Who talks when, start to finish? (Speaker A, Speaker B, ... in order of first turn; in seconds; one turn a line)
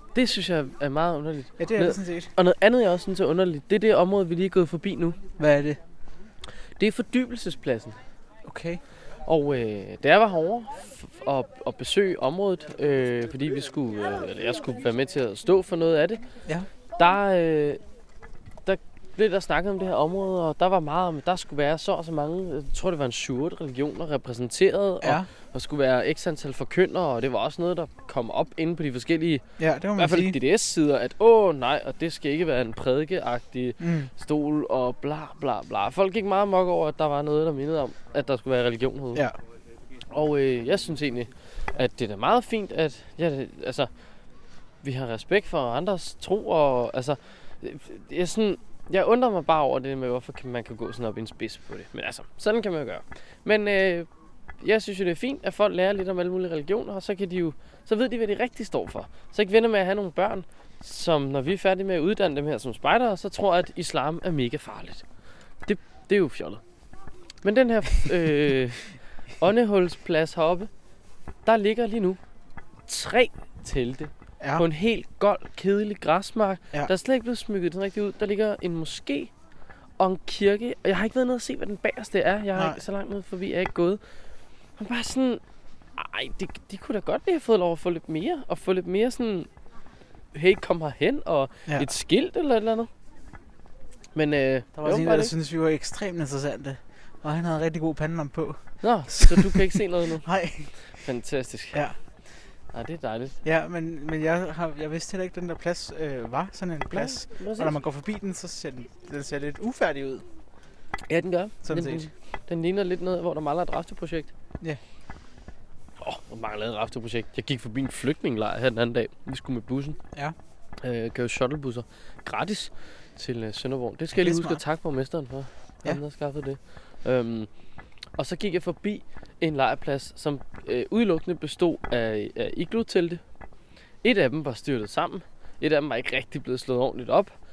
Speaker A: 0.1-5.2
Speaker B: 1.6-2.3
Speaker B: 5.4-5.8
Speaker A: 6.8-8.0
Speaker B: 8.4-8.8
Speaker A: 9.2-16.3
Speaker A: 16.9-17.8
Speaker A: 18.6-39.2
Speaker B: 25.0-25.3
Speaker B: 29.6-30.4
Speaker B: 33.8-34.1
Speaker A: 40.1-43.9
Speaker A: 44.8-54.1
Speaker A: 54.6-65.0
Speaker A: 65.7-66.6
Speaker A: 67.4-70.7
Speaker A: 71.4-72.2
Speaker A: 72.9-79.3
Speaker B: 74.4-74.6
Speaker A: 80.0-84.0
Speaker A: 84.8-85.4
Speaker A: 86.0-89.5
Speaker A: 90.3-92.9
Speaker A: 94.1-95.3
Speaker B: 94.7-100.7
Speaker A: 98.8-100.3
Speaker A: 100.9-101.8
Speaker A: 102.7-103.4
Speaker B: 103.4-110.2
Speaker A: 106.9-107.7
Speaker A: 111.1-114.3
Speaker B: 111.6-112.1
Speaker A: 116.0-120.0
Speaker A: 120.8-127.5
Speaker B: 124.1-124.6
Speaker A: 128.1-133.2
Speaker A: 134.0-137.3